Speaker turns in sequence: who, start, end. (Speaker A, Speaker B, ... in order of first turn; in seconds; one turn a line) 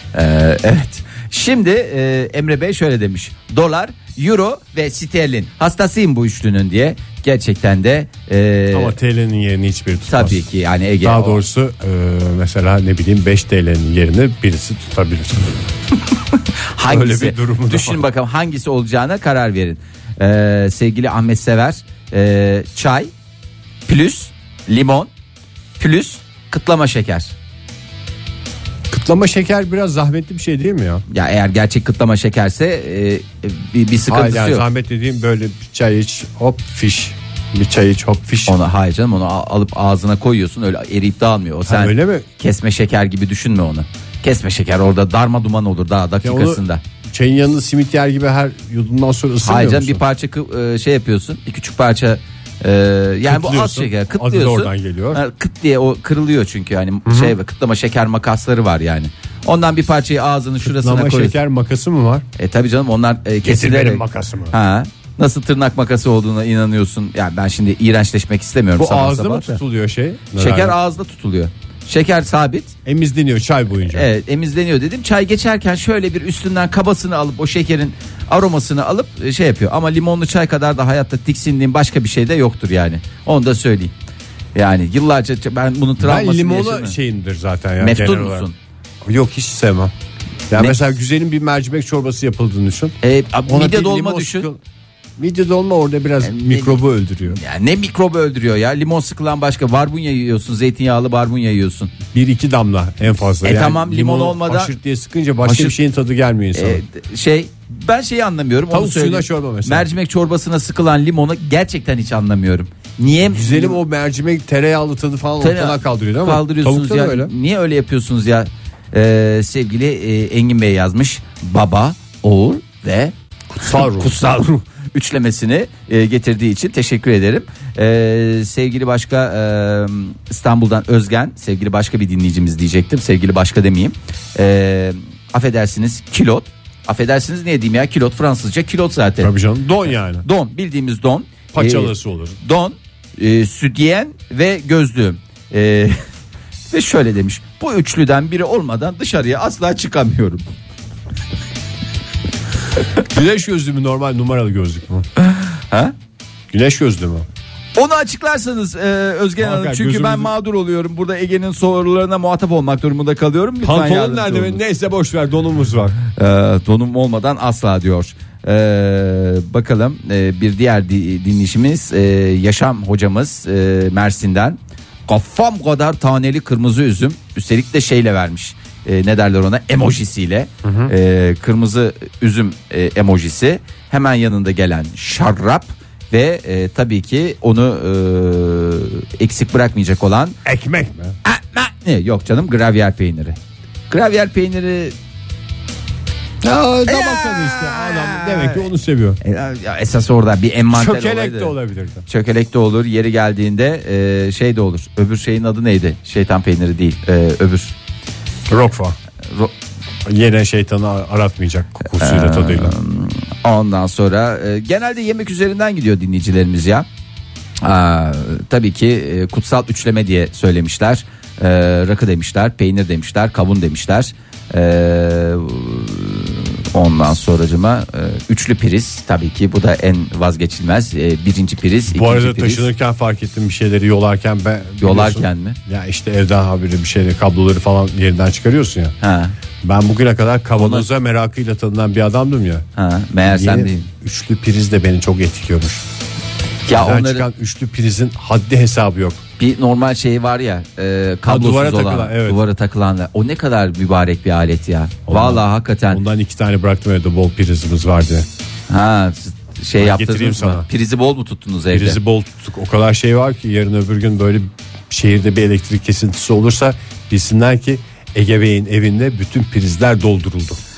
Speaker A: 0.1-8.9
Speaker B: 8.7-10.4
Speaker A: 10.1-11.4
Speaker B: 11.0-15.7
Speaker A: 16.7-23.1
Speaker B: 16.9-18.1
Speaker A: 23.9-25.1
Speaker A: 25.8-27.3
Speaker B: 28.9-31.0
Speaker A: 31.1-34.6
Speaker B: 34.1-38.6
Speaker A: 38.5-46.8
Speaker B: 41.7-42.3
Speaker B: 46.2-50.0
Speaker A: 49.4-61.4
Speaker B: 53.2-55.2
Speaker B: 57.0-57.4
Speaker B: 60.6-62.3
Speaker A: 62.4-69.6
Speaker B: 63.4-64.5
Speaker B: 68.8-70.8
Speaker A: 70.4-72.8
Speaker B: 72.9-74.1
Speaker A: 73.9-83.9
Speaker A: 84.5-87.0
Speaker B: 86.0-88.5
Speaker A: 87.8-88.6
Speaker B: 89.0-89.9
Speaker B: 90.5-94.6
Speaker A: 93.0-94.5
Speaker B: 95.2-97.4
Speaker A: 96.2-101.9
Speaker B: 102.1-106.8
Speaker A: 103.4-104.8
Speaker A: 105.4-105.8
Speaker A: 106.5-113.8
Speaker B: 108.7-109.9
Speaker B: 113.3-117.3
Speaker A: 115.4-139.3
Speaker B: 123.5-124.1
Speaker B: 139.2-140.3
Speaker A: 140.2-146.0
Speaker B: 141.5-142.4
Speaker A: 146.7-150.5
Speaker B: 153.0-155.1
Speaker A: 155.2-155.9
Speaker B: 156.5-157.3
Speaker A: 157.8-164.6
Speaker B: 159.4-160.3
Speaker B: 163.6-166.0
Speaker A: 166.2-190.4
Speaker B: 180.6-180.9
Speaker B: 190.4-191.2
Speaker A: 191.2-193.4
Speaker A: 193.9-194.9
Speaker B: 196.4-199.2
Speaker A: 196.9-198.6
Speaker A: 199.2-201.6
Speaker B: 200.7-202.0
Speaker A: 202.1-207.7
Speaker B: 208.5-209.0
Speaker A: 209.3-209.5
Speaker B: 210.1-212.8
Speaker A: 212.0-216.9
Speaker A: 217.6-232.7
Speaker B: 231.9-238.9
Speaker A: 234.8-235.6
Speaker A: 239.0-239.3
Speaker B: 239.6-242.7
Speaker A: 240.6-240.9
Speaker A: 242.8-243.9
Speaker B: 243.3-245.8
Speaker A: 246.7-247.3
Speaker B: 246.7-249.2
Speaker A: 249.4-256.0
Speaker B: 251.3-252.4
Speaker B: 255.1-258.3
Speaker A: 258.7-262.0
Speaker B: 259.8-260.7
Speaker B: 261.7-270.6